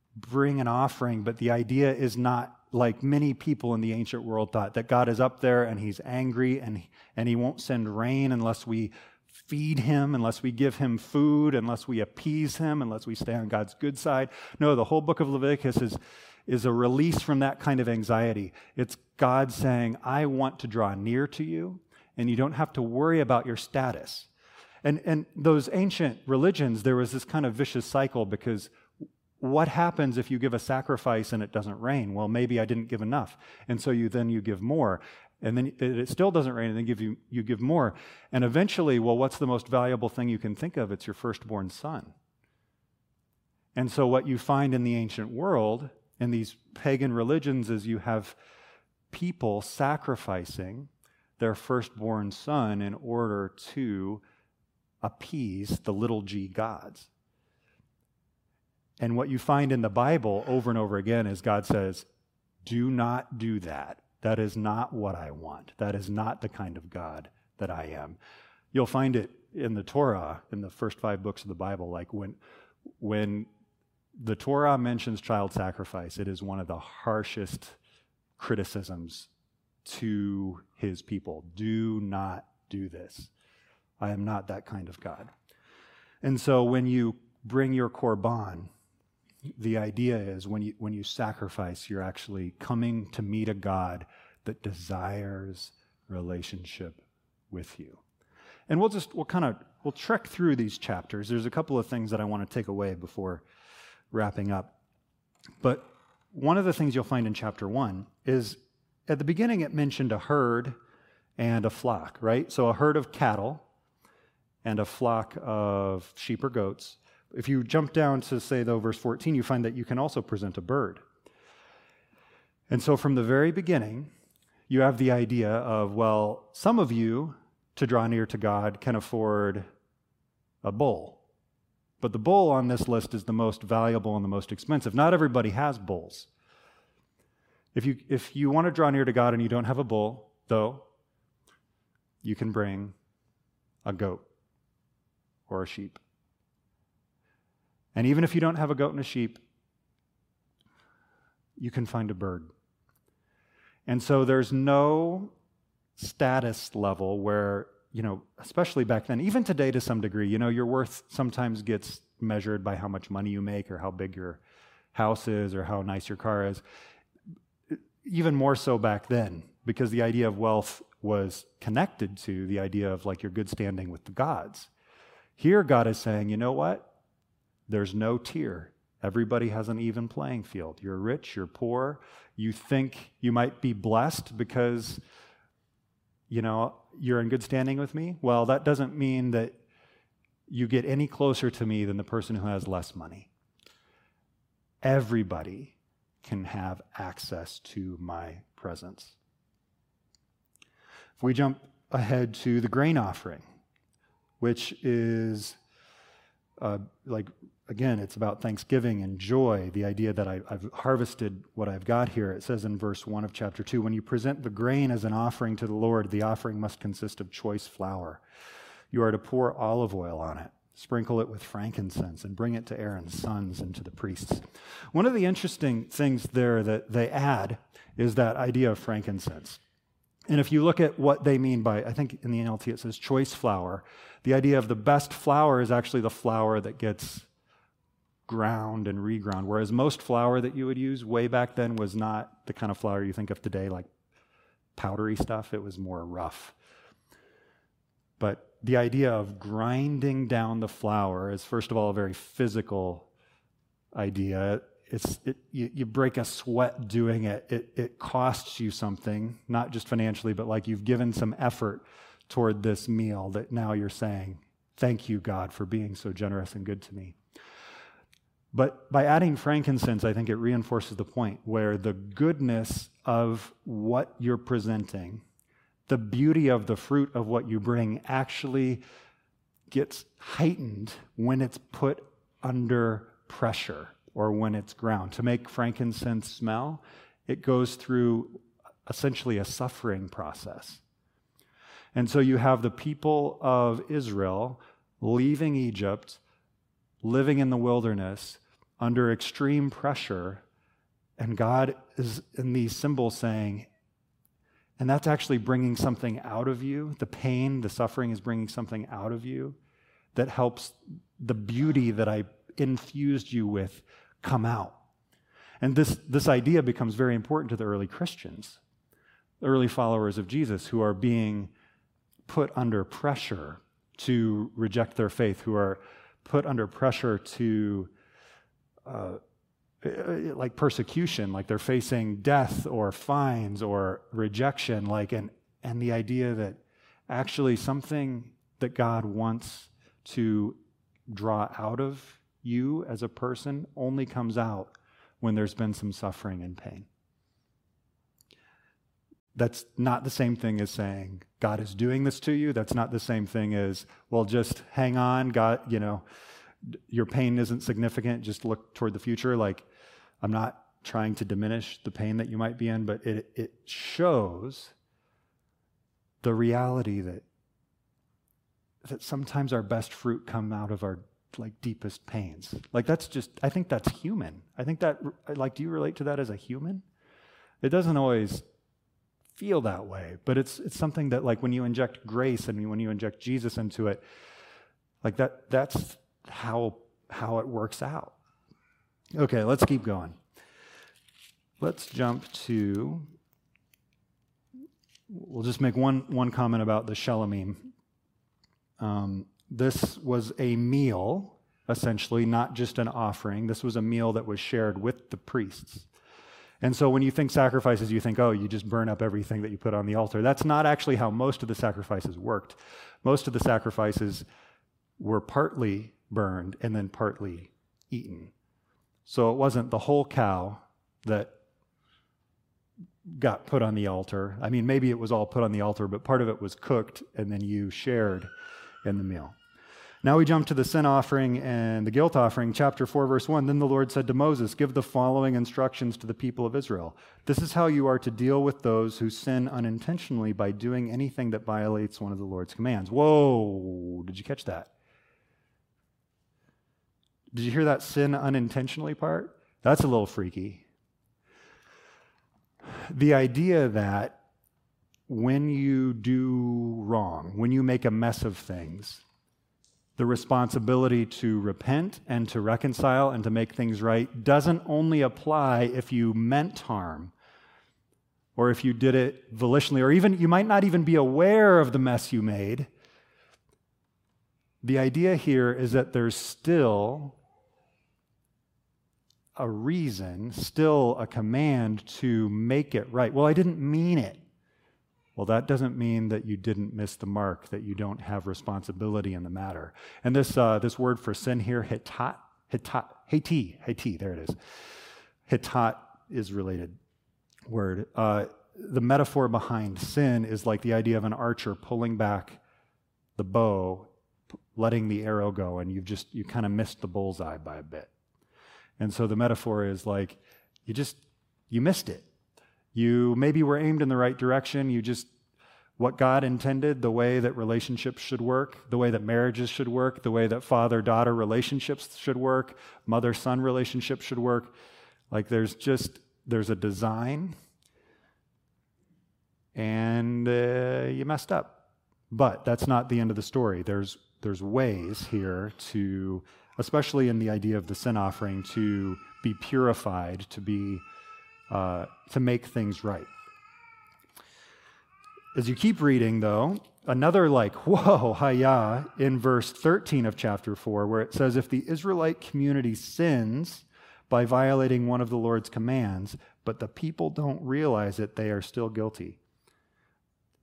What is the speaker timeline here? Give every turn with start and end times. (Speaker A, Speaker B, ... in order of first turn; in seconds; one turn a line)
Speaker A: 0.2-24.3
Speaker A: 24.8-28.7
Speaker A: 29.4-42.1
Speaker A: 43.7-48.4
Speaker A: 49.1-54.2
Speaker A: 55.0-57.1
Speaker A: 59.0-62.0
Speaker A: 62.6-68.2
Speaker A: 68.7-72.4
Speaker A: 73.0-73.5
Speaker A: 74.2-77.8
Speaker A: 78.4-79.3
Speaker A: 79.8-83.3
Speaker A: 84.0-85.3
Speaker A: 86.2-88.7
Speaker A: 89.5-98.0
Speaker A: 98.7-103.4
Speaker A: 104.1-104.7
Speaker A: 105.6-110.8
Speaker A: 111.4-113.6
Speaker A: 114.6-121.0
Speaker A: 122.7-124.1
Speaker A: 124.7-129.7
Speaker A: 130.6-131.2
Speaker A: 132.0-136.3
Speaker A: 137.7-140.8
Speaker A: 142.2-142.9
Speaker A: 143.8-144.2
Speaker A: 145.5-146.0
Speaker A: 147.9-149.4
Speaker A: 151.6-152.5
Speaker A: 153.9-155.3
Speaker A: 156.0-164.4
Speaker A: 164.9-166.6
Speaker A: 167.7-174.7
Speaker A: 175.4-176.9
Speaker A: 177.7-185.0
Speaker A: 186.3-189.6
Speaker A: 190.5-193.3
Speaker A: 194.8-199.2
Speaker A: 201.2-203.4
Speaker A: 204.4-205.6
Speaker A: 206.6-218.2
Speaker A: 218.9-229.6
Speaker A: 230.3-237.3
Speaker A: 238.3-243.9
Speaker A: 244.8-246.5
Speaker A: 248.2-253.1
Speaker A: 253.9-267.1
Speaker A: 268.5-275.2
Speaker A: 275.9-278.8
Speaker A: 279.7-290.8
Speaker A: 291.9-296.2
Speaker A: 297.0-300.4
Speaker A: 301.2-303.7
Speaker A: 304.8-309.6
Speaker A: 310.1-314.8
Speaker A: 315.6-318.6
Speaker A: 319.4-321.5
Speaker A: 322.3-327.9
Speaker A: 328.8-329.2
Speaker A: 329.8-346.9
Speaker A: 349.3-356.0
Speaker A: 356.7-359.6
Speaker A: 360.2-364.7
Speaker A: 366.2-367.2
Speaker A: 368.8-376.8
Speaker A: 377.6-378.4
Speaker A: 379.4-384.0
Speaker A: 385.0-388.1
Speaker A: 389.1-390.2
Speaker A: 391.6-393.1
Speaker A: 395.1-397.7
Speaker A: 398.8-405.9
Speaker A: 406.6-414.2
Speaker A: 415.0-418.3
Speaker A: 419.0-421.4
Speaker A: 423.1-428.3
Speaker A: 428.8-429.4
Speaker A: 430.0-444.7
Speaker A: 447.3-450.6
Speaker A: 452.9-454.2
Speaker A: 455.1-459.0
Speaker A: 460.0-467.1
Speaker A: 468.4-472.7
Speaker A: 474.6-477.2
Speaker A: 479.4-484.2
Speaker A: 485.1-494.4
Speaker A: 495.2-496.8
Speaker A: 497.5-502.4
Speaker A: 503.2-503.9
Speaker A: 504.6-507.9
Speaker A: 508.8-512.1
Speaker A: 512.7-515.1
Speaker A: 515.8-524.5
Speaker A: 525.1-527.3
Speaker A: 529.5-540.8
Speaker A: 541.5-543.1
Speaker A: 545.3-559.2